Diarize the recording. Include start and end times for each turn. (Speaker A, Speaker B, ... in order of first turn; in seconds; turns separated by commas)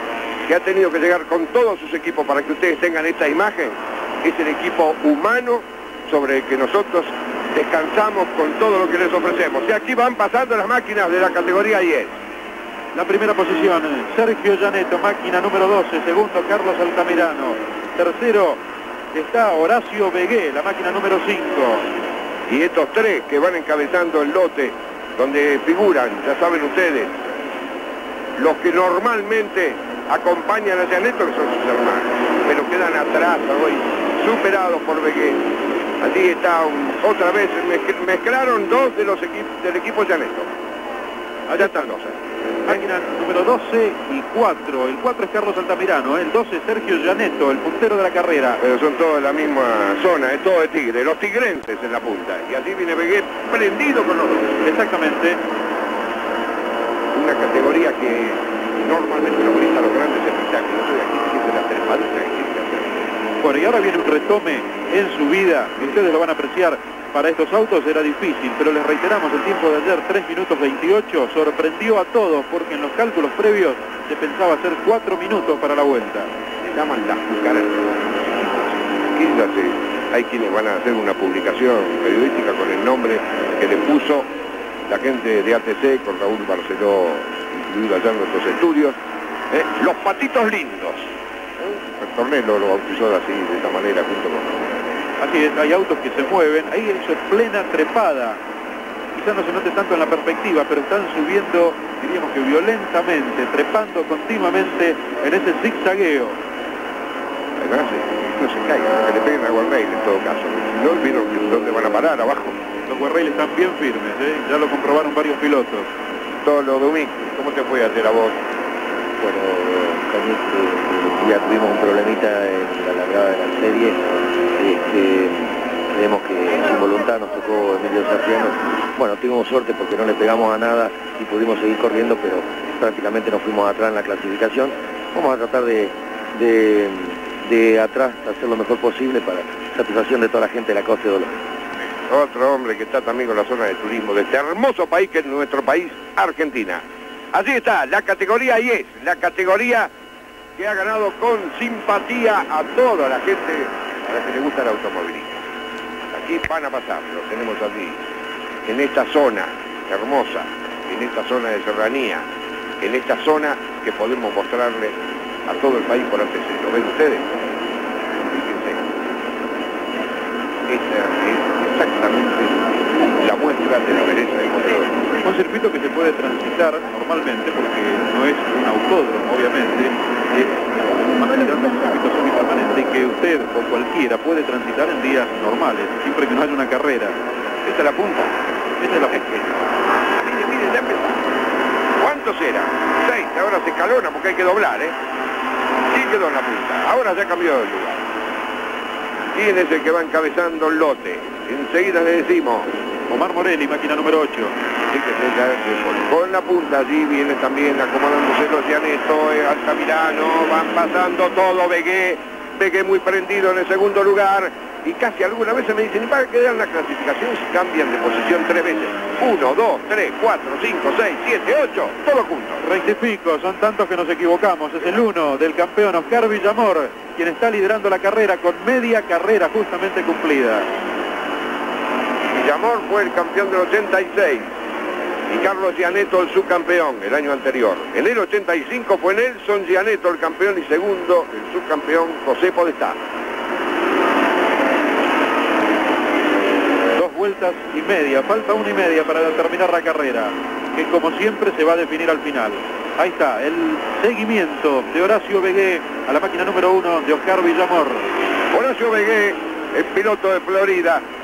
Speaker A: 0.5-12.2, Speaker B: 12.9-18.6, Speaker B: 19.1-21.9, Speaker A: 22.5-27.2, Speaker A: 28.4-35.4, Speaker A: 36.0-40.5, Speaker B: 41.5-41.9, Speaker A: 41.5-42.8, Speaker B: 42.7-48.6, Speaker A: 48.6-54.5, Speaker B: 54.6-55.4, Speaker A: 57.1-63.1, Speaker B: 63.4-76.3, Speaker A: 76.6-84.3, Speaker A: 84.9-89.0, Speaker A: 89.5-95.0, Speaker B: 95.2-98.4, Speaker B: 99.1-106.4, Speaker A: 107.6-112.6, Speaker B: 112.9-115.9, Speaker A: 116.4-118.4, Speaker C: 119.2-124.0, Speaker C: 124.5-141.3, Speaker A: 142.1-149.9, Speaker A: 150.6-155.4, Speaker A: 156.1-158.0, Speaker A: 158.7-162.2, Speaker A: 162.8-164.9, Speaker A: 165.5-167.5, Speaker A: 168.2-168.8, Speaker A: 170.7-172.6, Speaker A: 173.1-175.1, Speaker B: 175.2-187.2, Speaker A: 187.7-188.3, Speaker B: 188.8-189.2, Speaker A: 188.9-189.6, Speaker A: 190.2-191.2, Speaker A: 192.0-194.9, Speaker A: 195.9-198.0, Speaker A: 199.3-202.7, Speaker B: 203.1-204.6, Speaker A: 204.9-222.6, Speaker B: 222.6-230.7, Speaker A: 232.3-234.5, Speaker A: 235.3-243.0, Speaker B: 246.9-258.1, Speaker A: 258.5-261.0